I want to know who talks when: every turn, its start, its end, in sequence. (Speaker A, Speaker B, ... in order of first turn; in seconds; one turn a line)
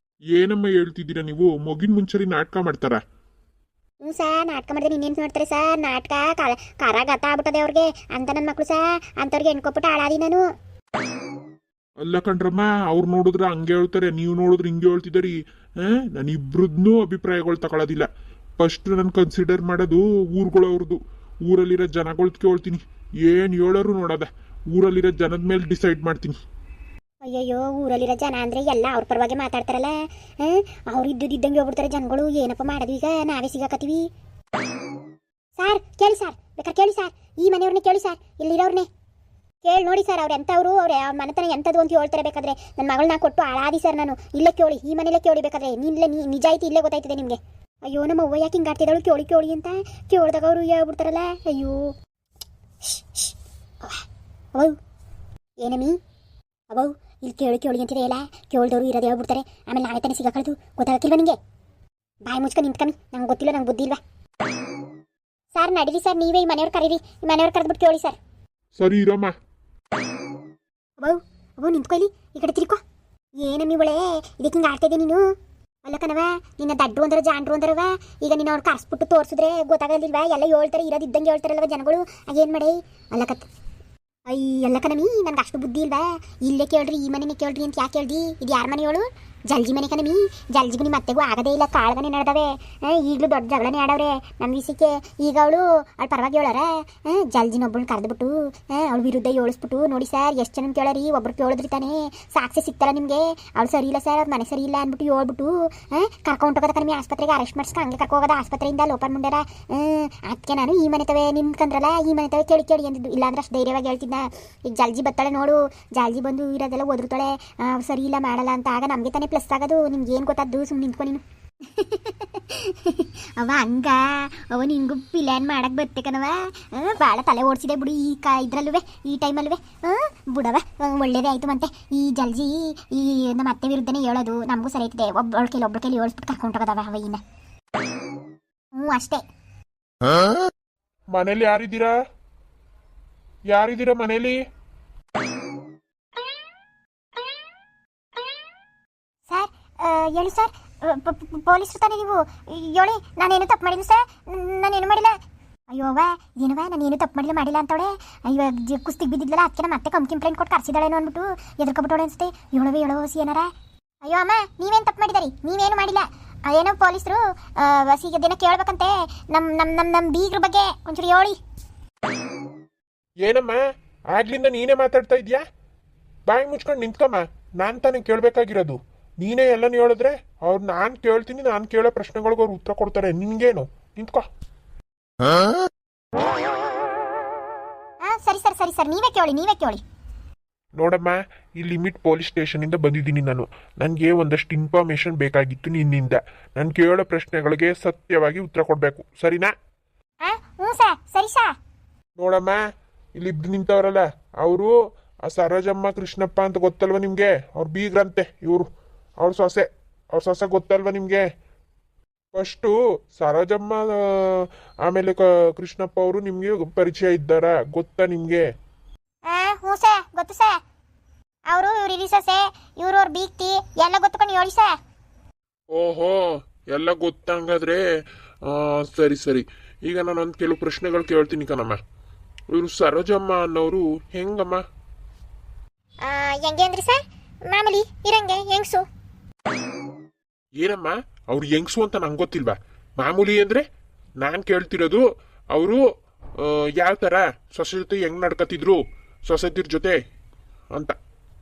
Speaker A: 0.3-3.0
Speaker B: 4.0-10.5
Speaker A: 12.0-18.1
Speaker A: 18.6-26.4
Speaker B: 27.2-34.1
Speaker B: 35.6-38.9
Speaker B: 39.6-51.9
Speaker B: 52.8-53.3
Speaker B: 53.8-54.8
Speaker B: 55.6-56.0
Speaker B: 56.7-61.4
Speaker B: 62.2-64.0
Speaker B: 65.5-68.2
Speaker A: 68.8-69.3
Speaker B: 71.0-72.8
Speaker B: 73.4-75.2
Speaker B: 75.8-83.5
Speaker B: 84.3-137.2
Speaker B: 138.7-139.2
Speaker A: 141.1-141.9
Speaker A: 143.5-144.4
Speaker B: 149.3-155.2
Speaker B: 155.7-163.5
Speaker B: 164.0-171.4
Speaker A: 173.2-175.4
Speaker A: 176.3-184.2
Speaker B: 188.0-189.8
Speaker A: 190.8-199.5
Speaker B: 200.2-201.5
Speaker A: 202.2-202.6
Speaker A: 203.2-204.7
Speaker A: 205.2-208.7
Speaker A: 209.2-211.3
Speaker A: 212.3-218.4
Speaker B: 219.2-220.6
Speaker B: 221.5-224.8
Speaker A: 225.7-227.9
Speaker A: 228.4-231.8
Speaker A: 232.5-234.6
Speaker B: 236.0-238.8
Speaker A: 240.6-243.6
Speaker A: 244.2-245.8
Speaker A: 246.4-250.0